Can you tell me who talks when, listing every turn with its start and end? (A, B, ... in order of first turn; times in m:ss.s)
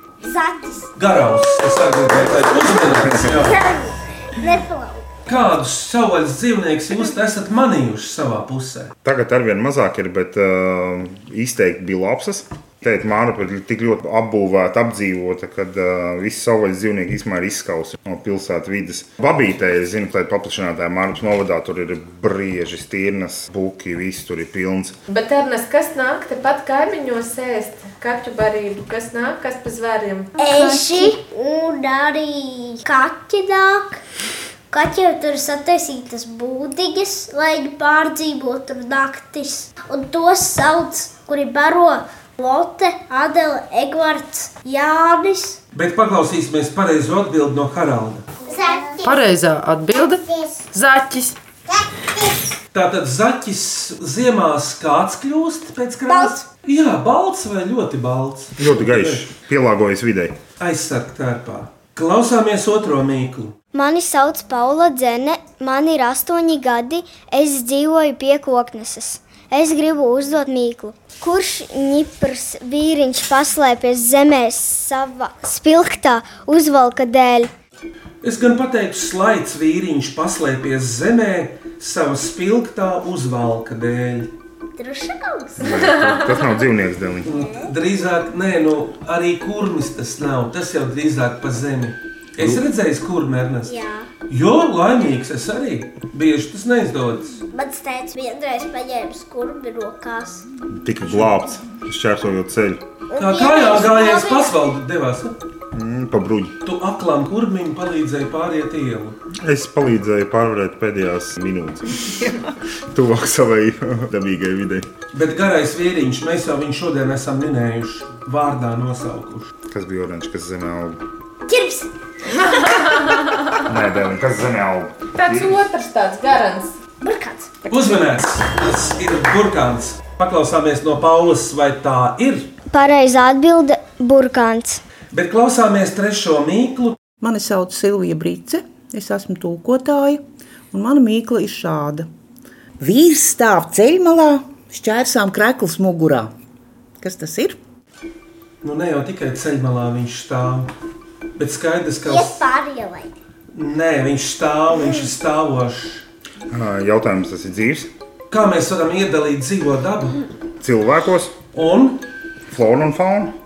0:00.2-0:00.9 A
0:01.0-0:03.6 B
0:02.8-0:05.1 A
0:05.3-0:08.9 B
0:09.0-0:25.0 C
0:25.1-0:31.1 D
0:30.4-0:34.0 A
0:34.7-0:45.6 A
0:45.7-0:48.3 B
0:48.4-0:49.2 A
0:49.0-0:51.4 E
0:50.3-0:50.6 A
0:51.7-0:52.4 A
0:52.7-0:59.3 B
0:56.1-0:56.4 A
0:58.6-1:00.4 C
1:00.6-1:03.5 B
1:03.7-1:17.5 A
1:18.2-1:24.3 B
1:24.8-1:25.7 A
1:25.6-1:27.3 C
1:25.7-1:26.4 D
1:27.2-1:27.7 A
1:27.2-1:33.8 B
1:32.4-1:32.6 C
1:33.6-1:34.1 A
1:34.3-1:37.4 B
1:37.5-1:40.5 A
1:40.7-1:42.8 C
1:41.0-1:41.3 B
1:43.1-1:44.6 A
1:43.2-1:45.4 B
1:45.7-1:46.6 C
1:46.6-1:49.2 B
1:49.4-1:52.1 C
1:52.9-1:54.9 C
1:55.1-1:59.5 B
1:59.7-2:01.0 C
2:01.5-2:01.9 A
2:02.4-2:03.5 D
2:03.6-2:05.6 C
2:05.1-2:06.8 D
2:07.0-2:07.9 A
2:07.7-2:12.5 B
2:12.7-2:14.8 A
2:15.1-2:17.0 B
2:17.2-2:22.1 F
2:22.8-2:26.3 F
2:27.0-2:27.6 F
2:28.6-2:30.7 B
2:31.4-2:32.4 B
2:32.0-2:33.1 A
2:33.5-2:36.0 B
2:36.5-2:37.9 C
2:38.3-2:40.2 B
2:40.6-2:41.4 C
2:41.5-2:42.0 B
2:42.5-2:43.3 C